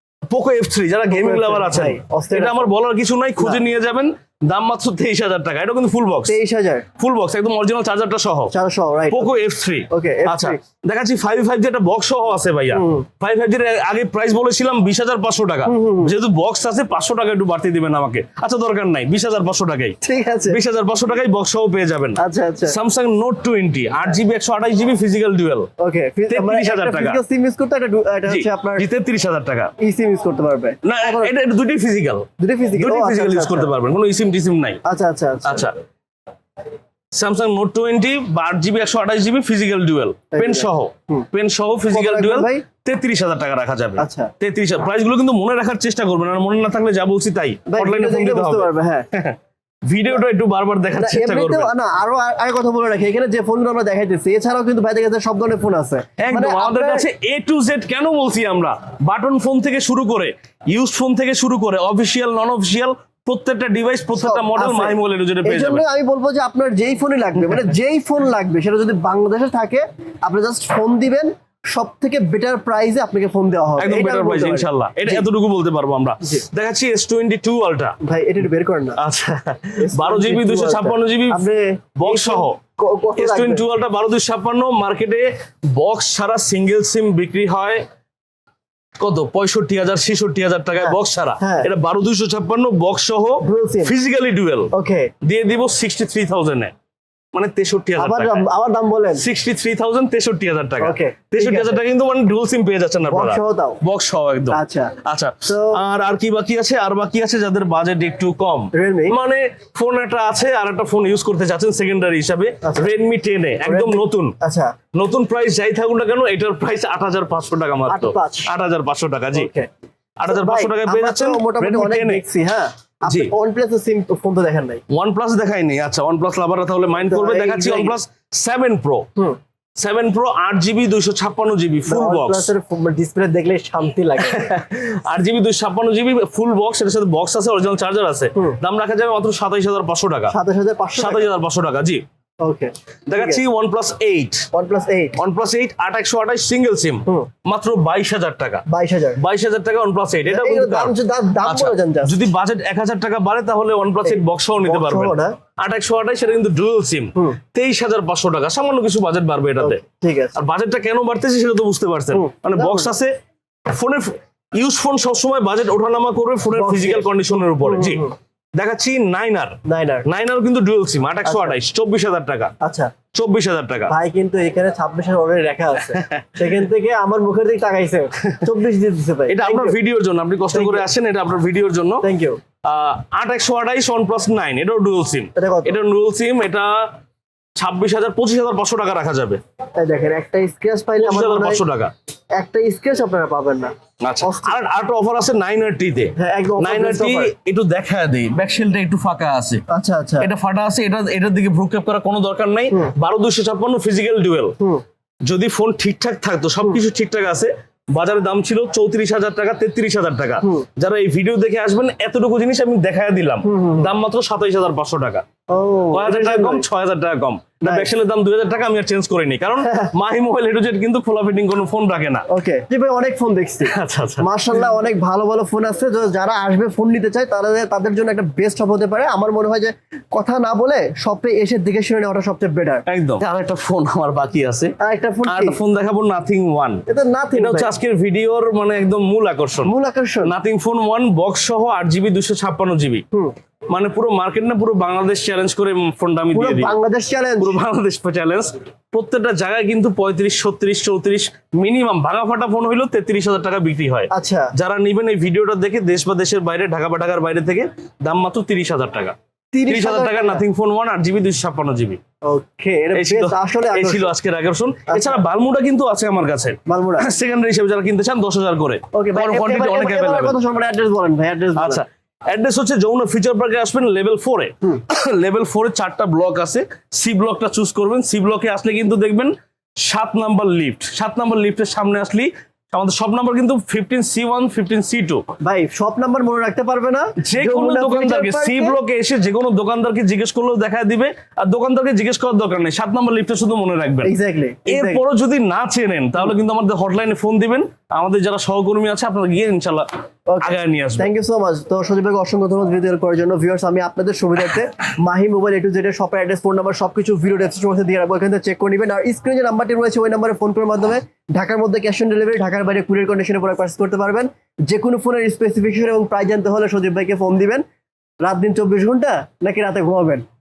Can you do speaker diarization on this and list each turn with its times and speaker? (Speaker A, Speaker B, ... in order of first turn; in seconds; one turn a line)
Speaker A: 0.3-6.4
Speaker B: 1.1-2.7
Speaker B: 6.3-6.8
Speaker A: 7.0-8.5
Speaker B: 8.5-9.4
Speaker A: 9.1-20.0
Speaker B: 9.9-10.6
Speaker B: 12.7-13.1
Speaker B: 15.7-16.1
Speaker B: 20.0-20.6
Speaker A: 20.5-25.7
Speaker B: 22.2-22.8
Speaker B: 25.8-28.9
Speaker A: 26.3-27.2
Speaker A: 28.3-29.7
Speaker B: 29.8-31.3
Speaker A: 30.8-34.8
Speaker B: 32.4-33.7
Speaker B: 34.8-35.7
Speaker A: 35.4-35.7
Speaker A: 37.1-51.7
Speaker B: 40.3-41.3
Speaker B: 41.9-42.6
Speaker B: 44.0-44.3
Speaker B: 47.7-49.1
Speaker B: 50.9-57.1
Speaker A: 56.2-65.8
Speaker B: 64.1-75.3
Speaker A: 73.8-78.0
Speaker B: 78.0-79.0
Speaker A: 79.0-81.4
Speaker B: 79.8-83.6
Speaker A: 82.0-82.6
Speaker A: 83.2-87.8
Speaker A: 89.0-96.7
Speaker B: 90.8-91.7
Speaker B: 93.4-93.9
Speaker B: 94.7-95.1
Speaker A: 97.3-98.4
Speaker B: 98.0-99.2
Speaker A: 99.2-114.3
Speaker B: 100.8-101.8
Speaker B: 103.1-103.8
Speaker B: 104.5-105.8
Speaker B: 108.7-109.2
Speaker B: 112.6-112.9
Speaker B: 113.6-114.8
Speaker A: 114.9-119.5
Speaker B: 117.9-118.5
Speaker B: 119.3-119.7
Speaker A: 120.2-122.2
Speaker B: 120.3-124.8
Speaker A: 123.1-123.3
Speaker A: 124.9-129.1
Speaker B: 127.1-128.0
Speaker A: 129.8-132.5
Speaker B: 131.8-134.9
Speaker A: 134.2-140.3
Speaker B: 140.3-141.3
Speaker A: 140.9-142.0
Speaker B: 142.4-143.4
Speaker A: 143.1-144.5
Speaker B: 144.5-145.2
Speaker A: 145.2-148.6
Speaker B: 148.7-149.2
Speaker A: 149.2-150.9
Speaker B: 150.2-152.2
Speaker A: 151.4-159.8
Speaker B: 154.0-155.4
Speaker B: 159.6-160.4
Speaker A: 160.3-163.1
Speaker B: 162.1-162.9
Speaker A: 163.7-172.5
Speaker B: 166.5-167.1
Speaker B: 167.6-168.1
Speaker B: 169.7-170.1
Speaker B: 171.2-171.5
Speaker B: 172.6-172.9
Speaker A: 173.1-173.9
Speaker B: 173.9-179.8
Speaker A: 175.8-176.6
Speaker A: 179.3-182.0
Speaker B: 180.5-180.9
Speaker B: 182.0-182.4
Speaker A: 182.6-186.9
Speaker B: 185.3-185.8
Speaker A: 187.6-189.4
Speaker B: 189.8-191.6
Speaker A: 191.0-191.9
Speaker B: 192.4-194.6
Speaker A: 194.0-199.6
Speaker B: 196.2-197.3
Speaker B: 199.7-200.3
Speaker A: 200.2-204.6
Speaker A: 205.3-215.2
Speaker B: 210.4-210.7
Speaker B: 213.4-213.9
Speaker B: 215.5-216.7
Speaker A: 215.9-222.2
Speaker B: 217.6-217.9
Speaker B: 219.6-219.9
Speaker B: 222.3-232.8
Speaker A: 223.6-224.3
Speaker A: 232.9-234.7
Speaker B: 234.8-235.6
Speaker A: 235.2-236.8
Speaker B: 236.9-237.7
Speaker A: 237.3-239.7
Speaker B: 239.6-240.3
Speaker A: 240.2-243.0
Speaker A: 243.7-246.7
Speaker B: 246.3-247.6
Speaker A: 247.4-259.1
Speaker B: 254.1-254.5
Speaker B: 259.5-260.4
Speaker A: 259.7-262.0
Speaker B: 262.2-264.1
Speaker A: 262.9-270.4
Speaker B: 264.9-265.2
Speaker B: 266.7-267.1
Speaker B: 268.9-271.8
Speaker A: 271.6-285.2
Speaker B: 285.4-288.8
Speaker A: 287.2-294.1
Speaker B: 294.0-295.0
Speaker A: 294.7-299.9
Speaker B: 300.3-317.6
Speaker A: 300.4-301.1
Speaker B: 318.2-320.2